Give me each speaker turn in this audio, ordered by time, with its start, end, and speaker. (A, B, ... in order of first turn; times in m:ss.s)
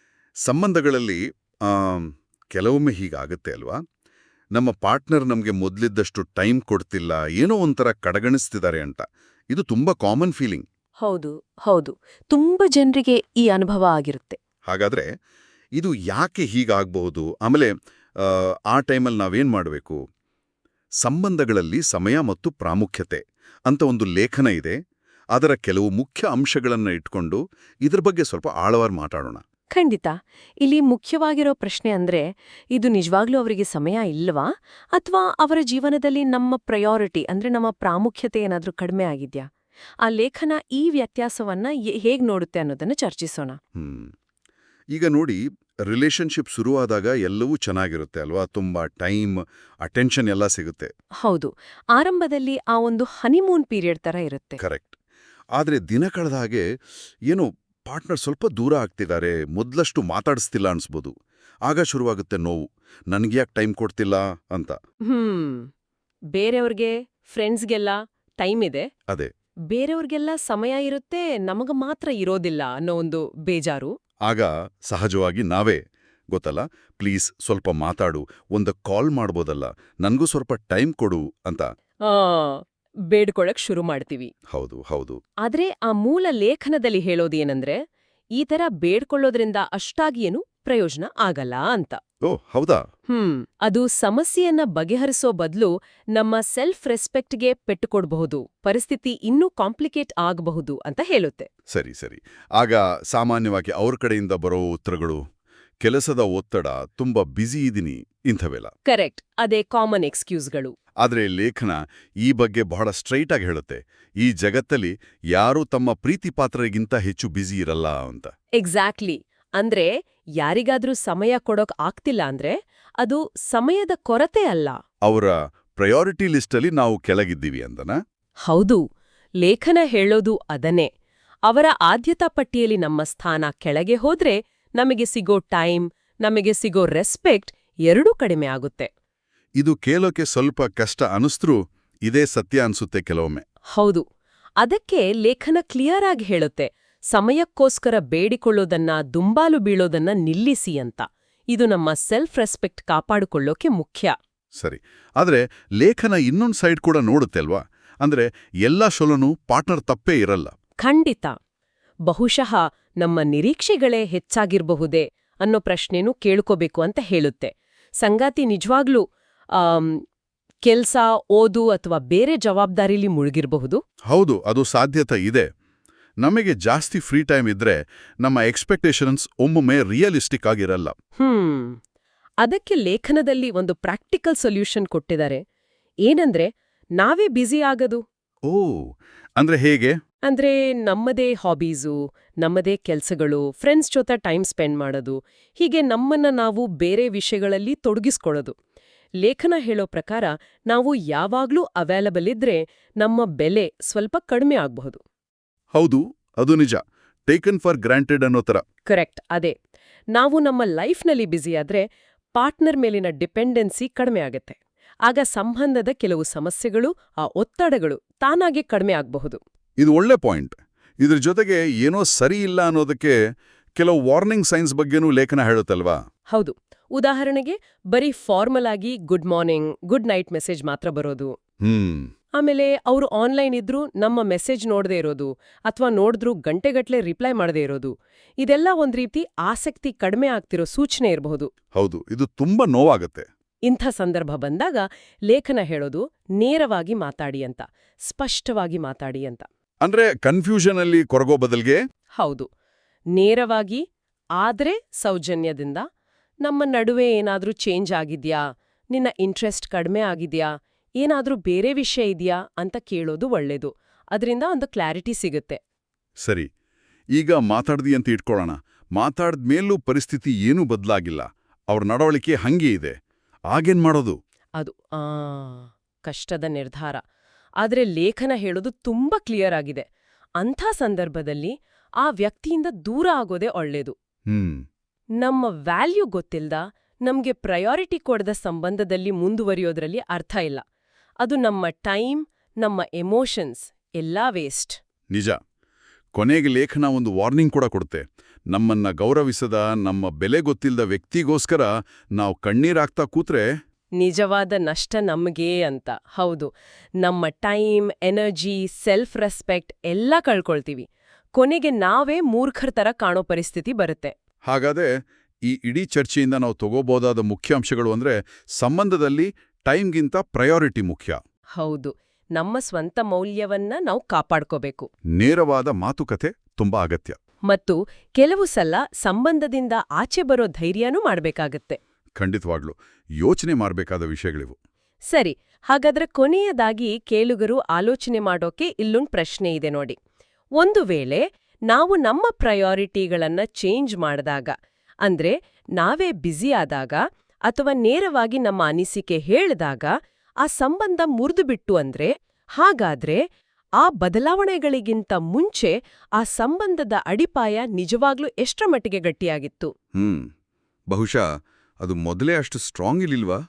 0:00.4-0:03.8 A
0:04.5-0:10.6 A
0:11.0-0:14.4 B
0:14.7-0:15.1 A
0:15.8-0:20.0 A
0:21.0-0:24.8 A
0:25.3-0:29.4 A
0:29.7-0:39.4 B
0:40.0-0:43.6 B
0:43.8-0:44.1 A
0:44.9-0:50.9 A
0:51.2-0:54.6 B
0:54.6-0:55.0 A
0:55.5-0:56.6 A
0:57.3-1:01.1 A
1:01.7-1:04.8 A
1:05.1-1:05.7 B
1:06.3-1:08.9 B
1:09.7-1:13.9 B
1:14.2-1:15.8 A
1:16.3-1:21.7 A
1:22.0-1:24.3 B
1:24.5-1:25.2 A
1:25.4-1:27.8 B
1:28.4-1:32.0 B
1:32.2-1:32.8 A
1:33.1-1:41.5 B
1:41.7-1:45.2 A
1:45.8-1:48.7 A
1:48.8-1:50.7 B
1:51.0-1:58.3 A
1:58.6-2:04.8 B
2:05.0-2:08.0 A
2:08.4-2:08.8 B
2:09.4-2:10.9 B
2:11.5-2:18.9 B
2:19.6-2:23.4 A
2:23.7-2:24.0 B
2:24.6-2:34.1 B
2:34.6-2:40.5 A
2:40.8-2:41.3 B
2:42.1-2:49.0 B
2:49.5-2:50.0 B
2:50.6-2:53.8 B
2:54.1-2:55.5 A
2:56.2-3:00.9 A
3:01.2-3:01.8 B
3:02.4-3:05.4 B
3:06.0-3:08.0 B
3:08.5-3:08.8 A
3:09.4-3:09.9 A
3:10.3-3:18.5 B
3:19.2-3:25.0 B
3:25.7-3:28.6 A
3:28.9-3:29.5 B
3:30.1-3:31.8 B
3:32.3-3:39.4 B
3:39.8-3:43.2 A
3:43.8-3:46.0 A
3:46.3-3:51.3 B
3:51.6-3:52.1 A
3:52.4-4:01.5 B
4:01.7-4:03.2 A
4:03.7-4:09.4 B
4:09.8-4:11.8 A
4:12.2-4:12.5 B
4:13.1-4:13.8 B
4:14.4-4:15.8 B
4:16.4-4:18.4 B
4:18.9-4:20.5 B
4:21.0-4:25.6 B
4:26.2-4:26.5 A
4:27.1-4:33.0 A
4:33.5-4:34.2 A
4:34.6-4:37.0 B
4:37.6-4:39.8 B
4:40.4-4:43.9 B
4:44.3-4:44.6 A
4:45.2-4:50.6 B
4:51.2-4:54.8 B
4:56.1-5:03.4 A
5:04.0-5:14.1 B
5:14.5-5:14.9 A
5:15.5-5:21.2 A
5:21.6-5:24.9 B
5:25.2-5:27.2 A
5:27.5-5:31.8 B
5:32.2-5:34.6 A
5:35.1-5:40.0 B
5:40.6-5:44.5 B
5:45.0-5:49.9 B
5:50.4-5:53.2 B
5:53.8-5:59.7 B
6:00.0-6:00.3 A
6:00.9-6:01.2 A
6:01.8-6:03.4 A